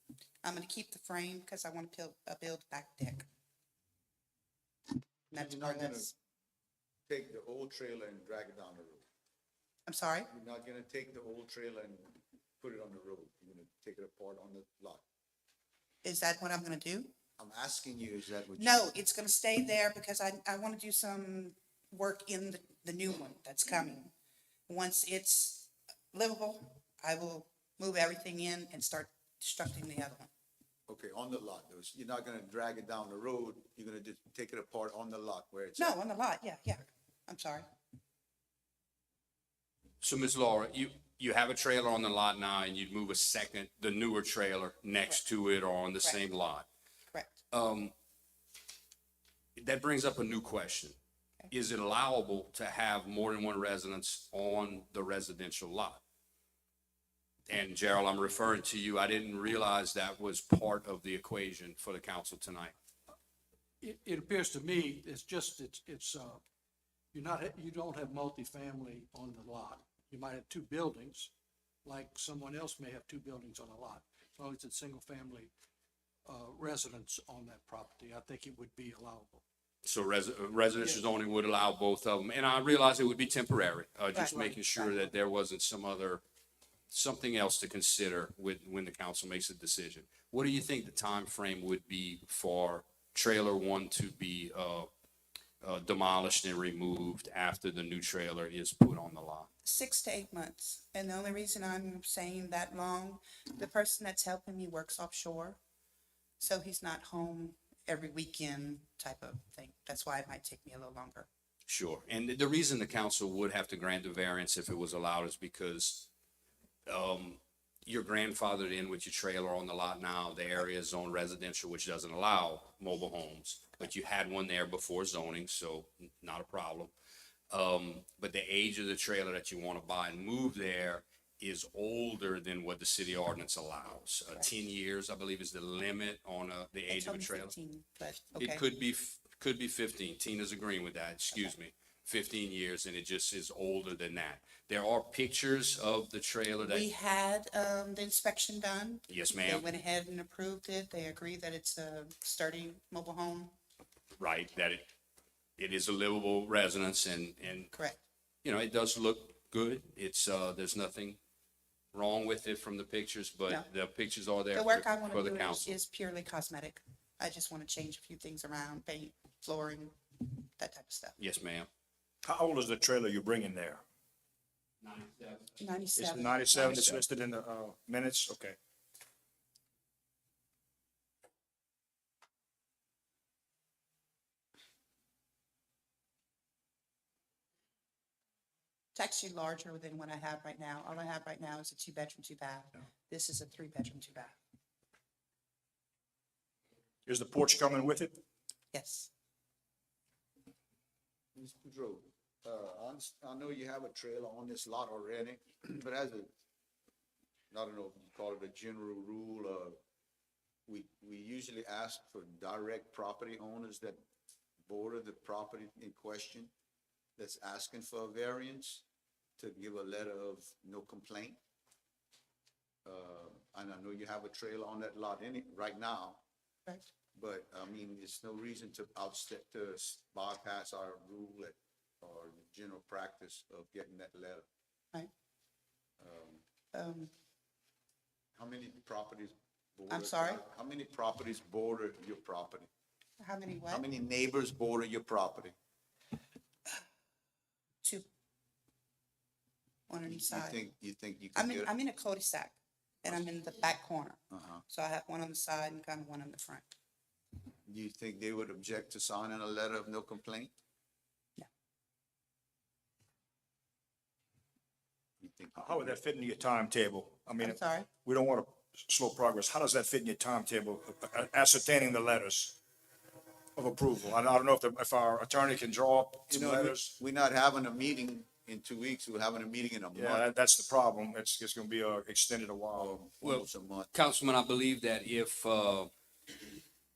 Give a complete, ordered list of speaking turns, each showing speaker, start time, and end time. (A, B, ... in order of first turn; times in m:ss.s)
0:00.4-0:03.2 A
0:05.3-0:06.1 A
0:05.3-0:06.1 B
0:07.1-0:09.0 B
0:09.8-0:10.3 A
0:10.3-0:15.0 B
0:16.0-0:17.1 A
0:17.4-0:18.8 B
0:18.6-0:24.1 A
0:24.7-0:30.3 A
0:30.9-0:36.0 B
0:35.8-0:37.7 A
0:40.0-0:46.6 C
0:47.1-0:47.4 A
0:47.5-0:47.9 C
0:49.6-0:51.0 C
0:51.5-0:56.0 C
0:57.5-1:02.7 C
1:03.8-1:06.4 D
1:07.1-1:11.3 D
1:11.8-1:15.5 D
1:16.2-1:19.4 D
1:19.8-1:26.2 C
1:20.8-1:21.0 D
1:24.1-1:24.9 A
1:24.2-1:24.6 D
1:26.9-1:34.9 C
1:35.6-1:39.5 C
1:39.6-1:45.6 A
1:46.4-1:51.3 A
1:51.7-1:56.1 C
1:56.8-2:06.9 C
2:07.5-2:17.5 C
2:16.9-2:18.6 A
2:18.4-2:26.9 C
2:26.6-2:33.5 A
2:29.1-2:29.6 C
2:34.2-2:34.9 C
2:35.6-2:37.7 C
2:37.7-2:38.0 A
2:38.4-2:41.2 C
2:41.9-2:45.8 C
2:44.5-2:51.2 A
2:51.2-2:51.7 C
2:52.2-2:53.8 E
2:54.8-2:55.6 C
2:55.6-2:57.0 A
2:56.0-2:58.6 E
2:56.6-2:57.0 C
3:08.9-3:14.3 A
3:17.0-3:18.2 E
3:18.7-3:19.1 A
3:21.3-3:26.3 B
3:27.5-3:29.8 B
3:30.7-3:34.0 B
3:34.6-3:36.5 B
3:37.2-3:38.8 B
3:39.4-3:41.4 B
3:42.8-3:46.2 B
3:47.1-3:54.4 B
3:56.0-3:56.4 B
3:56.7-3:57.1 A
3:58.3-4:02.7 B
3:59.9-4:00.4 A
4:03.2-4:03.8 A
4:03.7-4:05.5 B
4:09.9-4:10.6 A
4:10.0-4:11.7 B
4:11.3-4:16.7 A
4:14.3-4:14.6 B
4:17.6-4:20.5 B
4:25.2-4:26.0 B
4:25.5-4:32.6 E
4:27.4-4:27.9 A
4:33.5-4:36.9 E
4:36.3-4:40.2 B
4:39.9-4:43.0 E
4:42.7-4:43.9 B
4:43.2-4:45.9 C